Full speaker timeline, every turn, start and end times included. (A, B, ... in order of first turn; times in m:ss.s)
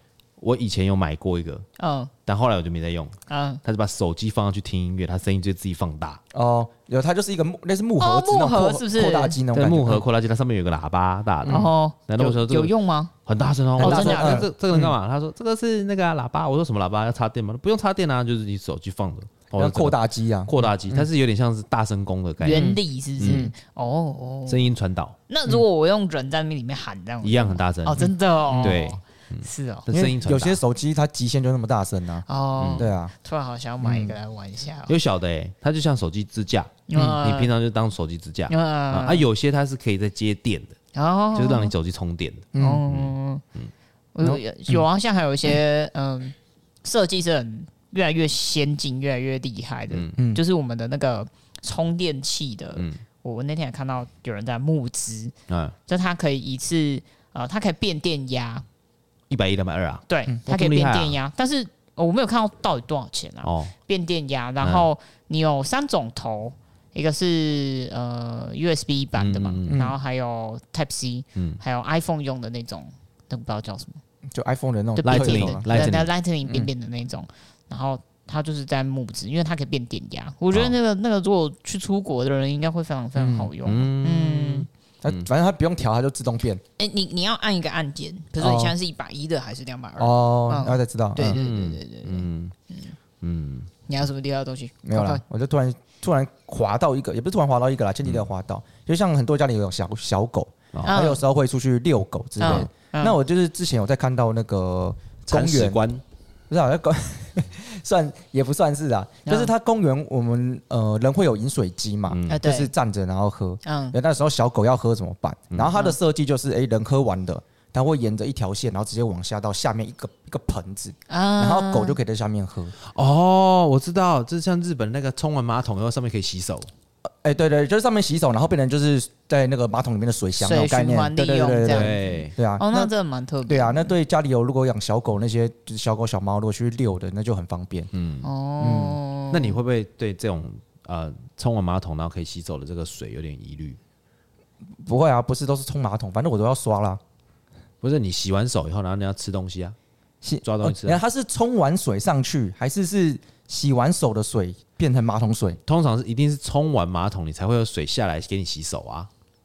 0:00.4-0:01.6 A
0:01.8-0:02.1 B
0:02.2-0:06.2 A
0:03.3-0:03.6 B
0:06.3-0:10.0 C
0:08.0-0:09.4 B
0:09.5-0:23.5 A
0:11.4-0:11.7 C
0:11.5-0:13.1 B
0:13.8-0:14.4 B
0:13.8-0:14.9 C
0:19.6-0:21.1 C
0:22.4-0:24.7 B
0:22.5-0:23.5 C
0:24.5-0:25.2 A
0:25.3-0:29.8 B
0:27.2-0:30.6 A
0:28.5-0:28.8 C
0:29.9-0:33.1 C
0:32.3-0:34.9 B
0:32.6-0:32.9 A
0:33.8-0:34.1 C
0:34.9-0:40.8 A
0:36.9-0:37.5 B
0:36.9-0:37.2 C
0:38.5-0:39.2 B
0:40.9-0:41.7 B
0:41.3-0:43.7 A
0:42.5-0:42.8 C
0:42.6-0:43.4 B
0:44.1-0:55.3 B
0:44.2-0:44.8 C
0:49.9-0:50.2 A
0:50.2-0:50.4 C
0:55.5-0:55.7 A
0:55.9-0:58.6 B
0:59.3-1:01.2 A
1:00.1-1:14.0 B
1:03.4-1:03.7 A
1:04.6-1:04.8 A
1:09.2-1:09.8 A
1:09.7-1:09.9 C
1:11.4-1:11.6 A
1:14.3-1:15.9 C
1:15.0-1:24.7 B
1:15.0-1:16.1 A
1:23.2-1:23.5 C
1:23.6-1:25.3 A
1:25.0-1:26.6 C
1:26.8-1:33.0 B
1:28.4-1:28.8 C
1:30.0-1:31.4 C
1:31.2-1:32.5 A
1:33.2-1:33.7 A
1:33.8-1:35.2 B
1:34.8-1:45.8 C
1:40.8-1:41.2 B
1:42.4-1:43.2 B
1:42.4-1:42.7 A
1:45.3-1:46.0 A
1:46.5-2:02.7 C
1:49.2-1:49.5 B
1:52.1-1:52.4 A
1:52.3-1:52.7 B
1:53.6-1:54.0 B
1:55.7-1:56.0 B
2:01.1-2:02.0 B
2:02.8-2:06.7 A
2:07.2-2:12.9 C
2:10.4-2:13.9 B
2:11.7-2:12.3 A
2:13.4-2:17.9 C
2:17.9-2:18.3 A
2:18.2-2:19.6 B
2:18.6-2:19.0 C
2:19.3-2:23.8 A
2:24.8-2:27.0 C
2:27.8-2:29.7 A
2:30.2-2:35.6 C
2:30.4-2:31.0 A
2:35.7-2:39.1 A